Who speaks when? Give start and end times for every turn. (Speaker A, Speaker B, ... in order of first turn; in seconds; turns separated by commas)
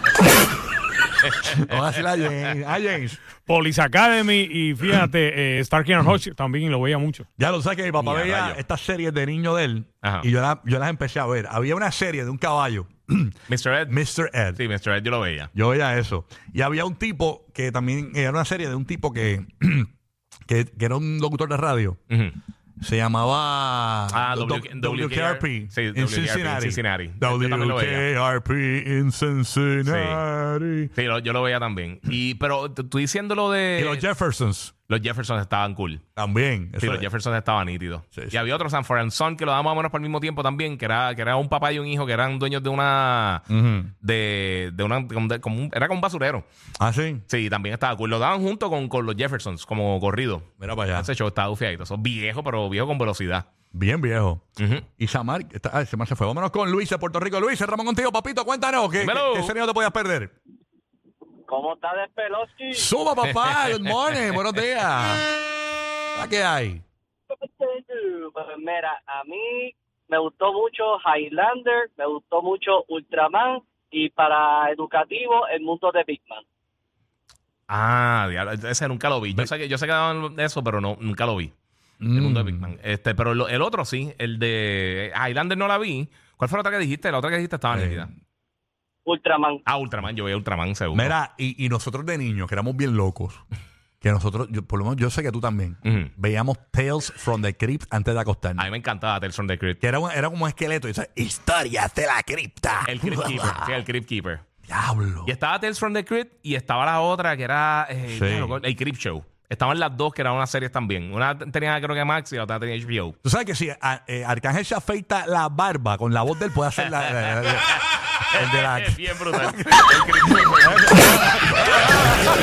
Speaker A: 1.4-1.8, Speaker B: 1.4-3.3, Speaker C: 3.4-7.3, Speaker B: 7.4-14.6, Speaker A: 8.0-8.6, Speaker A: 10.0-10.3, Speaker A: 13.5-14.0, Speaker A: 14.5-15.5, Speaker B: 15.5-19.9, Speaker B: 20.5-22.0, Speaker A: 22.1-22.4, Speaker B: 22.8-30.9, Speaker A: 24.1-28.1, Speaker A: 29.9-30.2, Speaker A: 30.9-34.1, Speaker B: 33.8-34.7, Speaker A: 34.9-36.0, Speaker B: 36.2-37.1, Speaker A: 36.8-43.5, Speaker B: 43.5-43.9, Speaker A: 44.0-46.5, Speaker B: 46.8-47.2, Speaker A: 47.3-53.5, Speaker B: 50.6-51.1, Speaker B: 53.7-54.4, Speaker A: 54.6-54.9, Speaker B: 55.0-60.3, Speaker A: 59.0-59.5, Speaker D: 61.5-62.9, Speaker B: 62.7-65.3, Speaker A: 63.6-64.2, Speaker B: 66.2-66.8, Speaker D: 67.3-76.5, Speaker A: 77.7-81.5, Speaker B: 82.0-82.7, Speaker A: 82.1-88.1, Speaker B: 87.7-88.1, Speaker D: 89.1-89.6, Speaker A: 89.7-91.1, Speaker B: 90.9-93.4, Speaker B: 94.0-98.7, Speaker A: 95.8-96.1, Speaker A: 98.6-99.8, Speaker B: 99.8-103.8, Speaker A: 102.8-104.4, Speaker B: 104.7-105.3, Speaker A: 105.2-113.2, Speaker B: 108.0-108.6, Speaker B: 113.2-122.2, Speaker A: 116.8-121.0